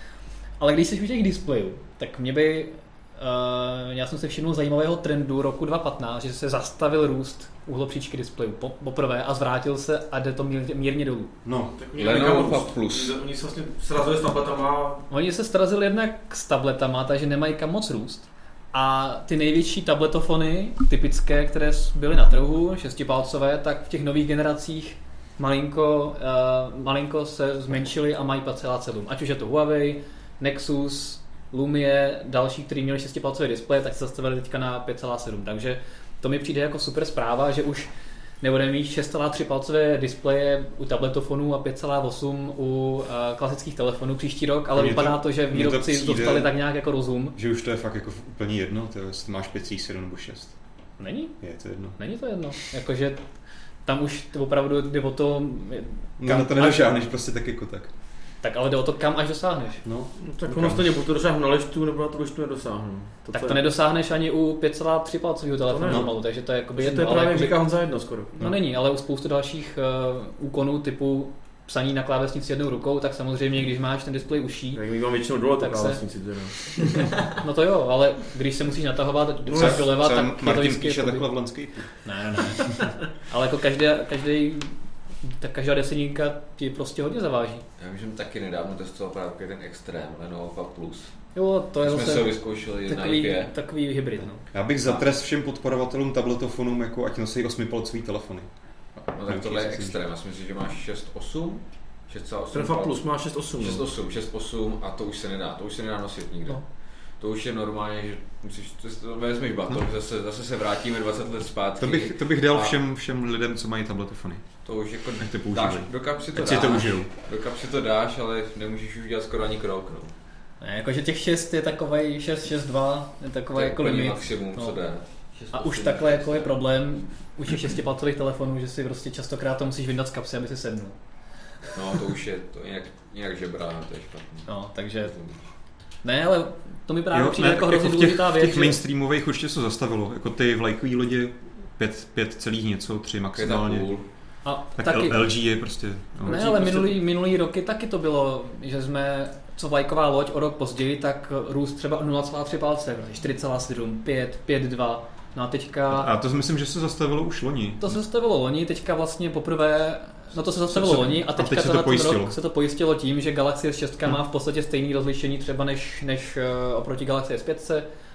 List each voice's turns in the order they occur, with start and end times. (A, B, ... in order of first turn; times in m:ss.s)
0:00.6-0:11.3 A
0:11.4-0:11.7 B
0:11.7-0:15.0 C
0:11.9-0:13.1 D
0:15.1-0:37.9 A
0:38.4-0:47.4 A
0:44.7-0:46.5 B
0:47.3-0:50.5 B
0:51.0-0:51.4 A
0:51.4-0:52.0 B
0:51.9-0:53.2 A
0:53.8-0:56.9 A
0:56.2-0:57.9 B
0:58.4-0:59.8 A
0:59.8-1:00.8 B
1:00.2-1:03.6 C
1:03.3-1:07.6 A
1:05.7-1:06.1 C
1:06.7-1:08.4 C
1:08.4-1:14.8 A
1:14.7-1:17.1 C
1:15.6-1:16.0 A
1:17.3-1:21.3 A
1:19.4-1:19.8 C
1:19.6-1:21.9 B
1:22.0-1:27.6 A
1:27.8-1:31.1 D
1:31.3-1:34.4 A
1:31.8-1:33.5 D
1:34.5-1:38.5 B
1:39.0-1:46.6 D
1:39.3-1:39.9 B
1:42.5-1:43.8 C
1:47.2-1:52.8 D
1:51.8-1:54.4 B
1:54.6-2:00.1 D
1:55.2-1:57.1 B
2:00.6-2:04.8 A
2:03.5-2:06.5 D
2:05.5-2:11.0 A
2:11.7-2:14.5 D
2:14.5-2:15.1 A
2:15.0-2:15.4 D
2:16.0-2:18.8 A
2:17.1-2:23.9 B
2:23.3-2:24.1 D
2:24.4-2:25.2 A
2:24.8-2:26.4 B
2:26.2-2:36.1 A
2:26.2-2:27.0 C
2:35.9-2:37.9 B
2:37.8-2:47.9 A
2:40.7-2:42.3 B